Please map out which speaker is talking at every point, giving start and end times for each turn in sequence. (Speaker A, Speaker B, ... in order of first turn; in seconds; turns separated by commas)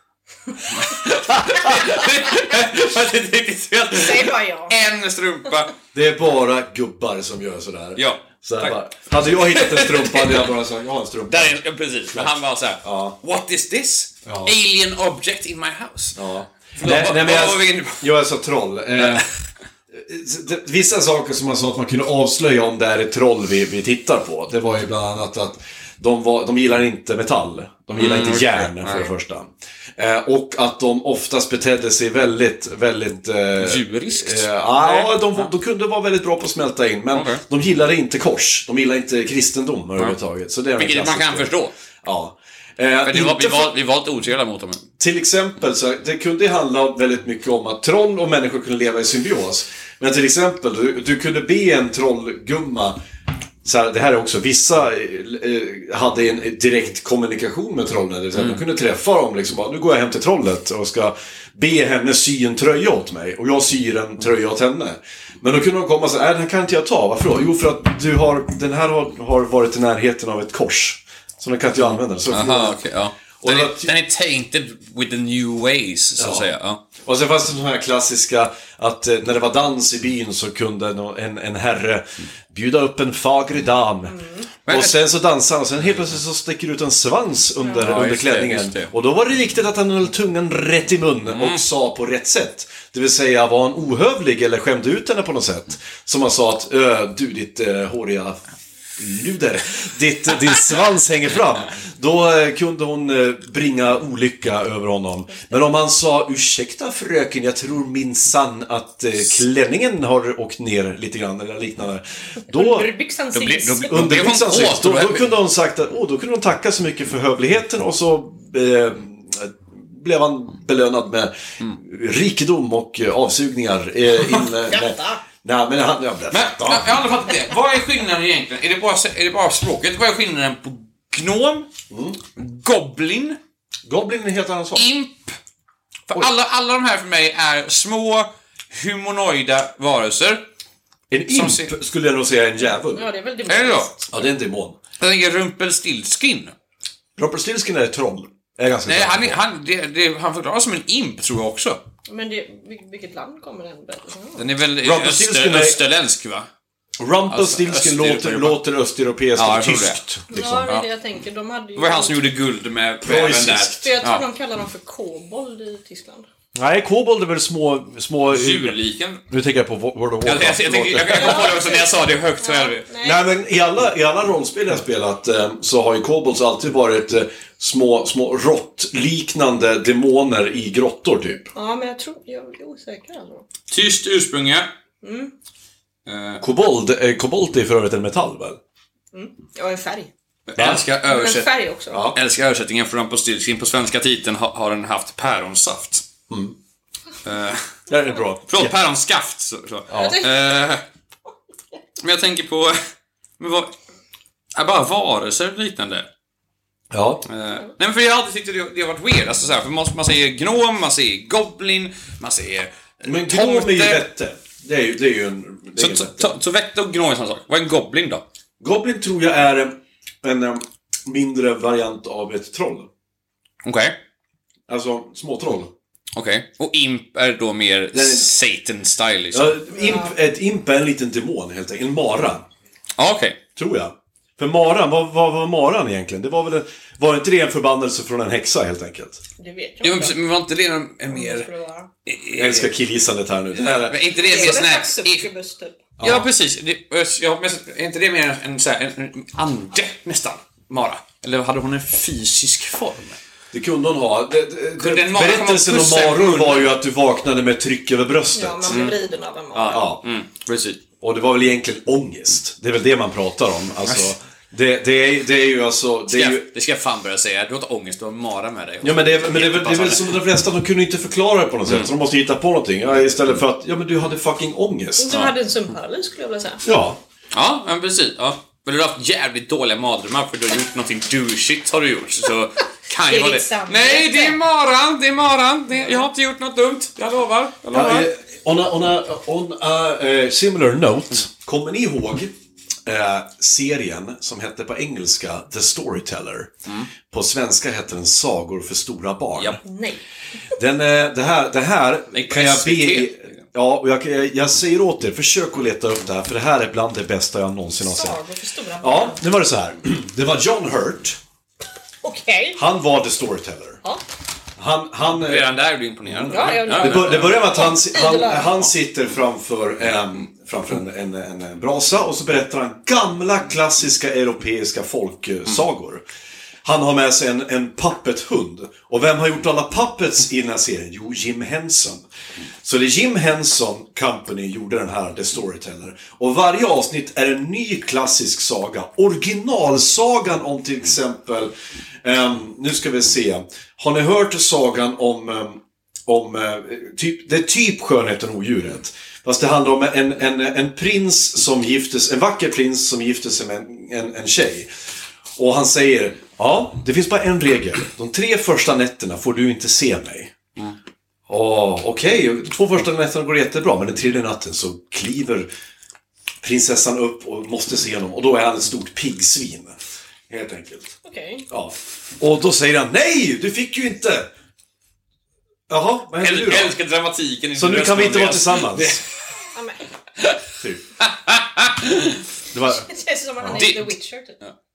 Speaker A: 0.6-5.7, Speaker B: 3.9-4.8, Speaker C: 5.9-11.6, Speaker A: 8.0-10.5, Speaker A: 11.3-16.2, Speaker C: 12.1-13.2, Speaker C: 14.3-14.5, Speaker C: 16.2-19.3, Speaker A: 16.8-18.1, Speaker A: 19.0-19.2, Speaker C: 19.9-43.8, Speaker A: 28.0-29.1, Speaker A: 33.6-35.5, Speaker A: 37.1-37.4, Speaker A: 40.8-41.7, Speaker A: 43.0-44.8, Speaker C: 45.0-53.0, Speaker C: 53.6-72.8, Speaker A: 58.4-58.6, Speaker A: 71.9-76.8, Speaker C: 73.4-73.9, Speaker C: 76.2-76.5, Speaker C: 77.0-98.4, Speaker B: 84.0-84.5, Speaker A: 84.7-85.0, Speaker B: 87.6-87.9, Speaker A: 87.8-88.9, Speaker A: 91.3-91.6, Speaker C: 99.0-112.9, Speaker B: 112.5-114.0, Speaker A: 113.3-115.3, Speaker C: 113.9-127.0, Speaker B: 124.7-125.2, Speaker A: 126.3-131.7, Speaker C: 131.9-132.2, Speaker A: 132.3-133.4, Speaker C: 133.8-134.9, Speaker A: 134.8-135.4, Speaker A: 136.1-140.4, Speaker C: 141.1-143.1, Speaker A: 141.3-141.7, Speaker B: 142.8-144.2, Speaker A: 143.5-143.9, Speaker C: 144.1-144.8, Speaker A: 145.0-146.5, Speaker C: 147.2-149.4, Speaker A: 148.9-151.8, Speaker B: 152.1-154.4, Speaker A: 154.4-156.5, Speaker C: 154.8-155.8, Speaker C: 157.0-160.7, Speaker A: 157.3-158.6, Speaker A: 159.3-160.0, Speaker B: 160.3-162.2, Speaker A: 161.8-164.2, Speaker C: 163.0-163.8, Speaker B: 163.8-166.3, Speaker C: 166.6-168.8, Speaker A: 168.3-169.2, Speaker C: 169.3-171.6, Speaker A: 170.2-172.9, Speaker B: 171.2-173.2, Speaker C: 173.0-181.5, Speaker B: 181.5-183.5, Speaker A: 183.7-184.7, Speaker B: 185.0-185.3, Speaker A: 186.1-186.4, Speaker C: 186.4-188.6, Speaker B: 189.1-190.1, Speaker A: 190.5-191.5, Speaker C: 190.6-190.8, Speaker B: 191.1-192.0, Speaker C: 191.9-192.2, Speaker A: 192.1-196.1, Speaker C: 196.3-196.6, Speaker A: 197.2-197.7, Speaker C: 197.9-198.7, Speaker A: 198.5-200.8, Speaker C: 199.9-200.2, Speaker B: 199.9-200.3, Speaker A: 202.0-202.8, Speaker A: 203.4-203.7, Speaker A: 204.6-206.1, Speaker C: 206.9-207.2, Speaker A: 207.2-214.1, Speaker C: 213.1-216.3, Speaker A: 215.8-218.2, Speaker C: 218.6-222.9, Speaker A: 223.7-224.0, Speaker C: 224.7-225.7, Speaker A: 226.2-229.6, Speaker C: 227.9-228.3, Speaker C: 229.3-232.4, Speaker B: 229.7-230.1, Speaker A: 233.0-233.4, Speaker C: 233.6-239.2, Speaker B: 239.4-240.2, Speaker A: 239.8-241.5, Speaker B: 241.1-241.9, Speaker A: 242.1-242.7, Speaker C: 242.3-244.6, Speaker A: 243.5-245.3, Speaker B: 244.1-245.8, Speaker C: 246.0-246.3, Speaker A: 246.0-253.2, Speaker C: 253.5-258.9, Speaker A: 254.8-256.8, Speaker B: 258.3-259.9, Speaker A: 258.7-259.0, Speaker A: 259.6-260.8, Speaker C: 259.7-260.0, Speaker C: 261.0-266.5, Speaker A: 263.8-264.1, Speaker A: 266.1-270.1, Speaker C: 268.8-275.3, Speaker B: 275.0-276.6, Speaker C: 276.6-277.0, Speaker A: 277.3-288.1, Speaker B: 283.1-284.4, Speaker C: 287.7-292.3, Speaker C: 292.9-296.5, Speaker C: 297.1-299.6, Speaker B: 299.6-300.0, Speaker C: 300.6-308.2, Speaker A: 302.1-303.3, Speaker B: 307.8-309.2, Speaker C: 308.8-311.2, Speaker B: 312.0-312.6, Speaker C: 312.6-313.8, Speaker C: 314.6-315.5, Speaker A: 315.1-317.8, Speaker C: 316.1-326.0, Speaker B: 316.3-318.6, Speaker C: 326.6-332.1, Speaker C: 332.6-341.5, Speaker C: 342.0-354.7, Speaker C: 355.4-360.3, Speaker C: 361.3-365.5, Speaker C: 366.4-369.8, Speaker C: 370.3-370.9, Speaker B: 371.1-371.5, Speaker C: 371.5-374.3, Speaker C: 375.7-376.8, Speaker A: 376.2-379.1, Speaker C: 377.6-379.0, Speaker B: 379.5-379.8, Speaker C: 380.6-380.9, Speaker A: 381.0-382.2, Speaker C: 382.5-382.9, Speaker B: 382.7-384.4, Speaker A: 383.6-384.5